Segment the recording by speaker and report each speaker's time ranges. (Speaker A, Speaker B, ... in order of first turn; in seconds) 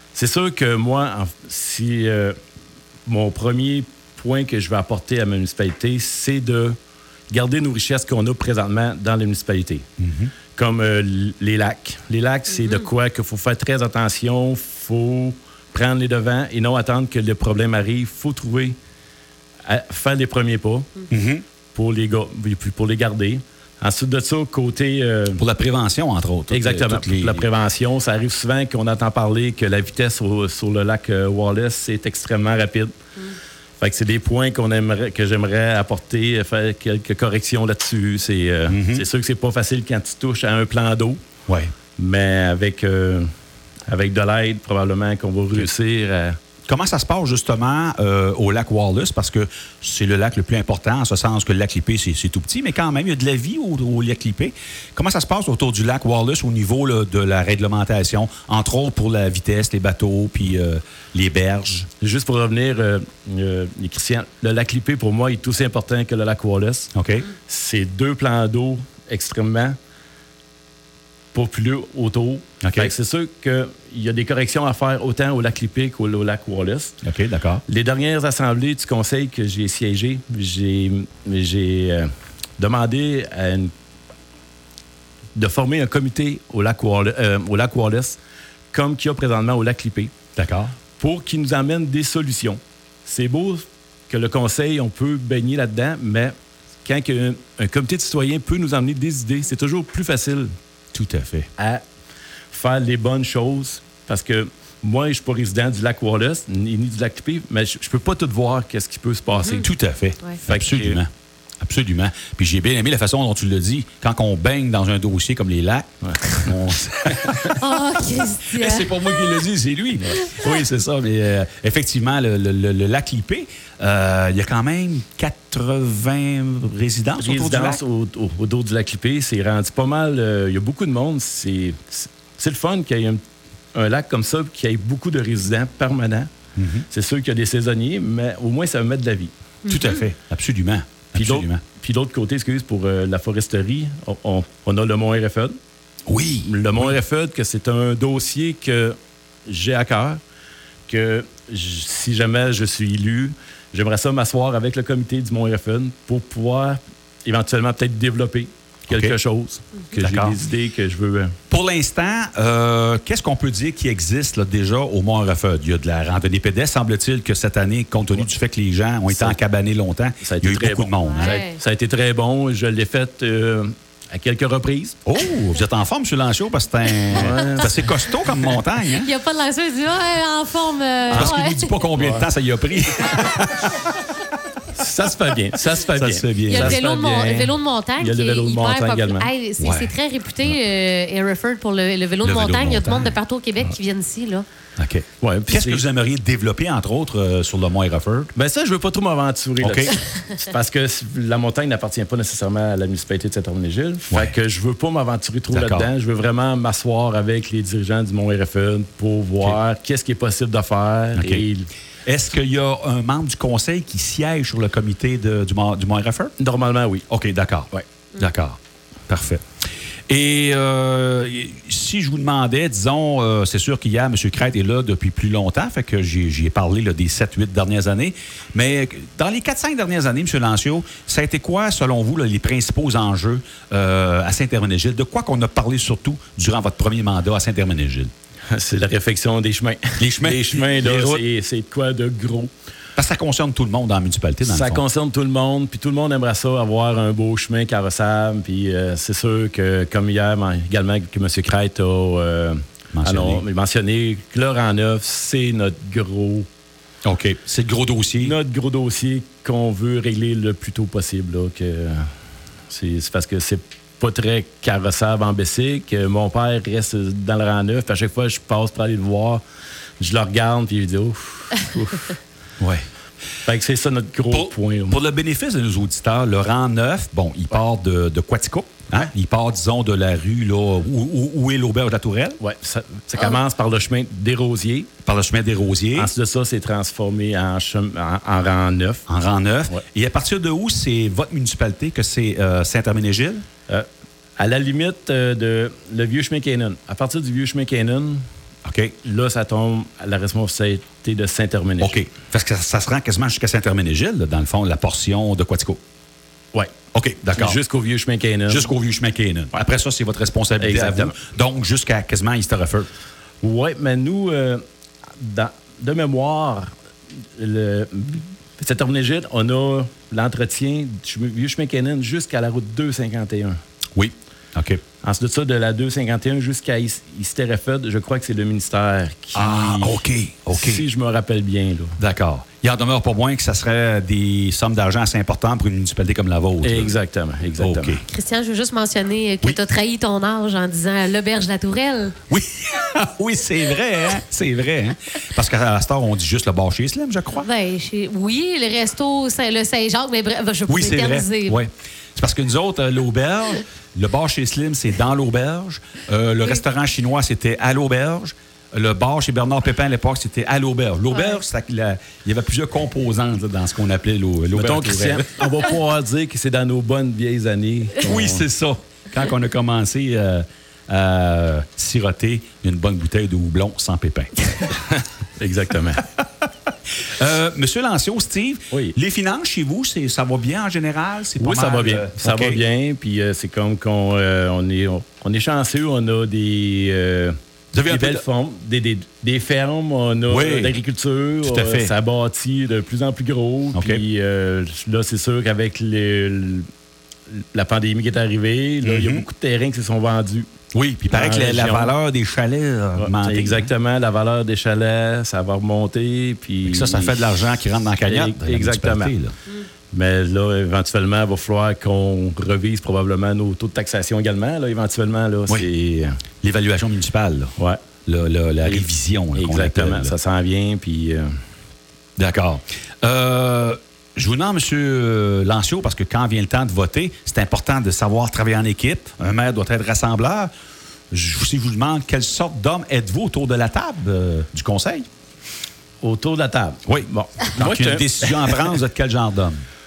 Speaker A: 0.1-2.4, 3.0-6.8, 7.3-9.8, 10.6-18.8, 19.6-20.9, 21.7-25.4, 26.5-32.9, 33.8-41.2, 42.0-43.3, 43.9-46.4, 62.0-66.9, 67.4-69.7, 71.3-77.0, 77.7-83.7, 85.3-88.2, 88.7-90.1, 91.0-96.3, 96.8-100.5, 101.6-101.8, 102.5-109.7, 110.5-111.0, 116.0-116.5, 127.2-133.2, 133.7-136.3, 136.9-139.3, 141.1-145.6, 146.5-150.2, 150.9-161.3, 169.1-169.4, 170.2-175.0, 177.1-178.5, 181.9-182.2, 184.7-189.3, 195.2-195.8, 198.3-211.7, 216.4-217.1, 238.5-242.5, 244.4-256.5, 258.2-262.1, 262.7-269.4, 270.0-272.2, 273.4-275.0, 282.4-284.9, 285.9-289.0, 294.4-298.2, 299.0-302.0, 307.3-308.7, 310.6-311.1, 313.4-314.6, 315.2-316.7, 317.4-323.6, 325.0-331.9, 336.6-338.0, 364.5-368.4, 374.9-376.1, 381.4-387.3, 387.9-396.7, 397.3-400.5, 401.1-401.9, 403.0-407.3, 408.0-409.1, 409.9-416.2, 418.6-421.3, 436.0-438.8
Speaker B: 10.0-10.3, 21.1-21.4, 25.4-27.4, 38.7-39.0, 41.5-41.7, 46.7-61.9, 66.9-67.3, 72.6-72.9, 77.0-77.6, 90.3-90.7, 100.9-101.5, 109.6-111.1, 111.6-117.6, 118.5-127.8, 136.6-136.8, 139.7-141.6, 146.1-146.9, 158.9-159.1, 160.0-160.4, 161.5-171.4, 175.1-179.1, 181.1-183.9, 185.9-186.8, 189.6-190.6, 192.2-193.1, 194.8-198.3, 199.6-199.9, 205.5-205.9, 211.2-211.4, 212.1-216.3, 217.1-219.4, 220.1-238.1, 240.0-241.2, 242.9-244.8, 252.9-253.4, 257.0-258.3, 274.3-282.4, 285.0-286.1, 289.1-293.4, 298.6-298.9, 301.8-305.8, 306.9-307.6, 308.5-312.9, 323.9-324.8, 329.3-330.8, 332.0-336.9, 337.6-338.0, 342.3-347.5, 350.7-365.3, 368.0-374.7, 376.2-376.5, 377.0-382.6, 387.7-388.2, 390.3-390.8, 391.4-391.9, 393.7-394.0, 398.8-399.2, 400.7-403.7, 406.6-409.3, 416.4-417.5, 418.1-420.1, 422.2-430.5, 431.1-435.1, 436.9-439.6
Speaker C: 12.5-12.8, 109.3-109.6, 117.6-118.9, 139.7-140.0, 171.0-171.6, 178.9-181.7, 186.5-194.4, 338.1-342.1, 347.4-351.6